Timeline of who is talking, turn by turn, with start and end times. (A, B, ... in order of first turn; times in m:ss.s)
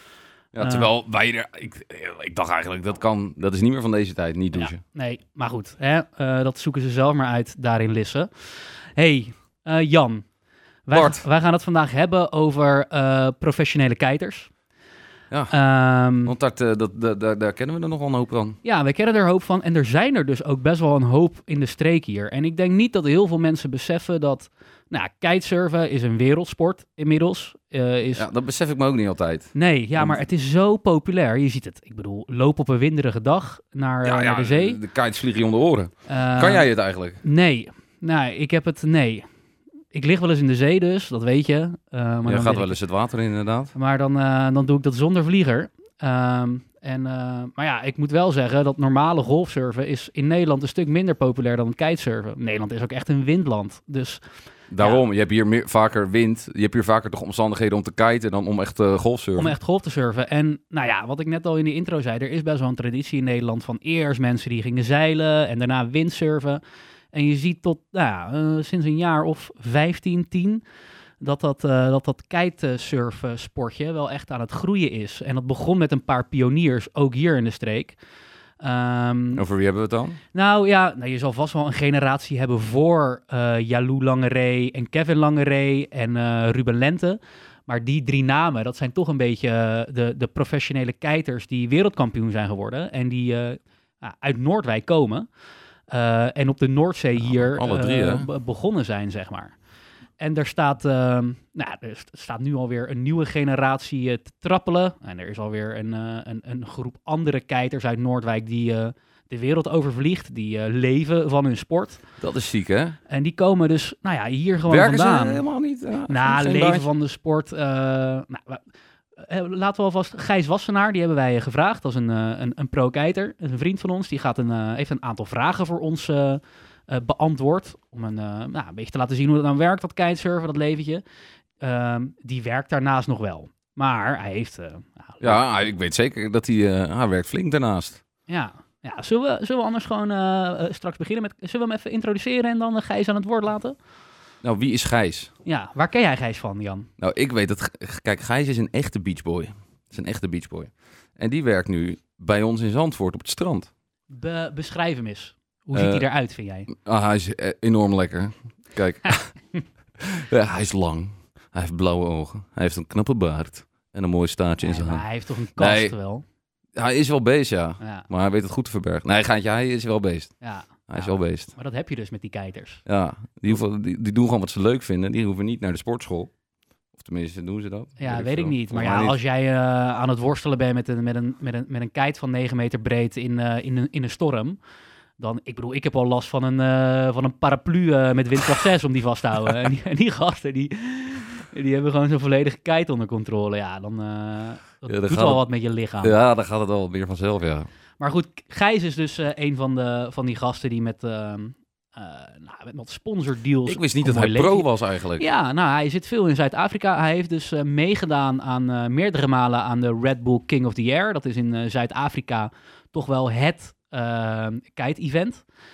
0:00.5-0:04.8 A
0:00.6-0:00.9 B
0:04.5-0:10.3 B
0:10.8-0:14.5 B
0:10.9-0:11.2 A
0:15.3-0:15.5 A
0:15.5-0:16.3 B
0:16.2-0:18.6 A
0:18.6-0:28.2 B
0:28.1-0:30.2 A
0:29.5-0:34.8 B
0:34.0-0:37.2 A
0:36.1-0:39.3 B
0:39.9-0:42.8 B
0:42.2-0:43.7 A
0:43.7-0:54.2 B
0:54.7-0:59.5 A
0:59.4-1:06.6 B
1:07.1-1:10.6 B
1:11.2-1:18.0 B
1:18.6-1:19.4 B
1:19.4-1:20.2 A
1:20.3-1:35.3 B
1:35.9-1:39.6 B
1:37.2-1:38.3 A
1:40.2-1:52.0 B
1:52.2-1:53.0 A
1:53.1-1:55.4 B
1:54.7-1:56.9 A
1:56.1-1:58.6 B
1:59.1-2:11.0 B
2:11.6-2:15.4 B
2:15.2-2:18.0 A
2:18.3-2:23.8 B
2:24.4-2:25.3 A
2:25.4-2:26.9 B
2:27.0-2:33.7 A
2:34.1-2:36.7 B
2:35.7-2:36.1 A
2:36.7-2:39.5 A
2:40.0-2:45.9 A
2:44.6-2:46.2 B
2:46.7-2:51.5 A
2:47.8-2:48.1 B
2:50.4-2:52.8 B
2:52.8-2:56.3 A
2:56.9-2:59.2 A
2:58.0-3:04.6 B
3:05.2-3:16.1 B
3:14.9-3:15.4 A
3:16.0-3:17.7 A
3:18.0-3:35.4 B
3:23.6-3:25.2 A